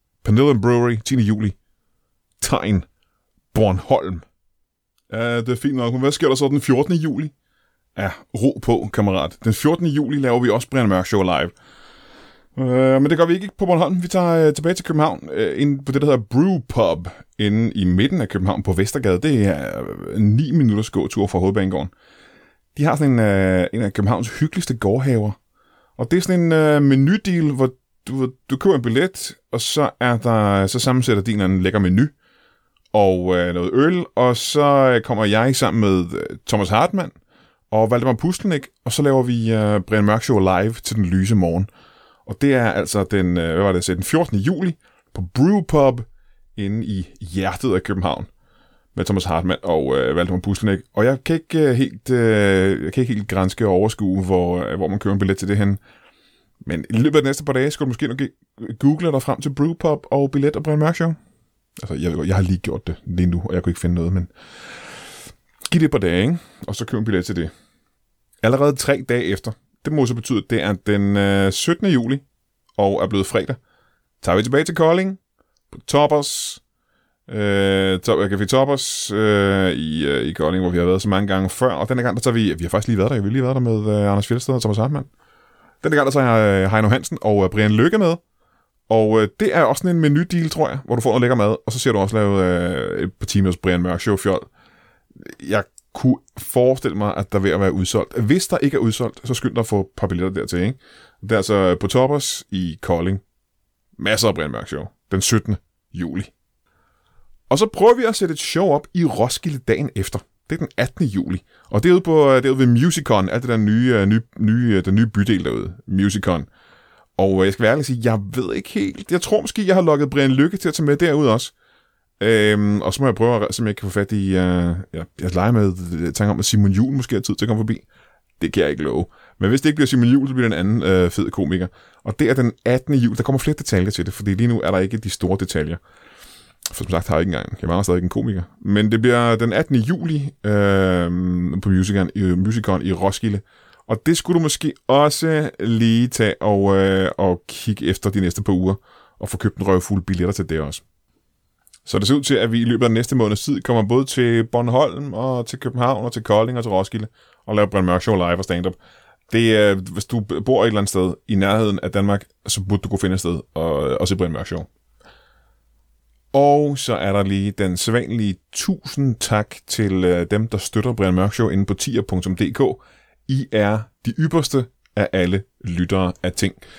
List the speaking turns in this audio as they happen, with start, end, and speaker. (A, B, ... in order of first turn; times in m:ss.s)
0:00.2-0:01.5 A
0:02.4-0:02.8 A
0:03.5-0:04.2 A
0:05.1-0:07.3 A
0:08.0-0:11.5 A
0:12.6-0:21.9 A
0:22.8-0:25.4 A
0:26.0-0:32.1 A
0:32.9-0:37.1 A
0:37.7-0:41.7 A
0:42.3-0:46.0 A
0:46.6-0:48.3 A
0:48.9-0:55.8 A
0:56.6-1:01.2 A
1:01.8-1:04.3 A
1:05.7-1:07.5 A
1:08.4-1:12.2 A
1:12.8-1:13.6 A
1:14.2-1:15.2 A
1:15.7-1:16.6 A
1:17.3-1:25.1 A
1:25.8-1:28.2 A
1:28.9-1:34.4 A
1:35.2-1:43.2 A
1:44.0-1:46.3 A
1:47.5-1:56.5 A
1:57.2-2:01.5 A
2:02.2-2:07.8 A
2:08.4-2:15.8 A
2:16.7-2:30.8 A
2:31.8-2:38.8 A
2:39.3-2:44.6 A
2:46.3-2:56.6 A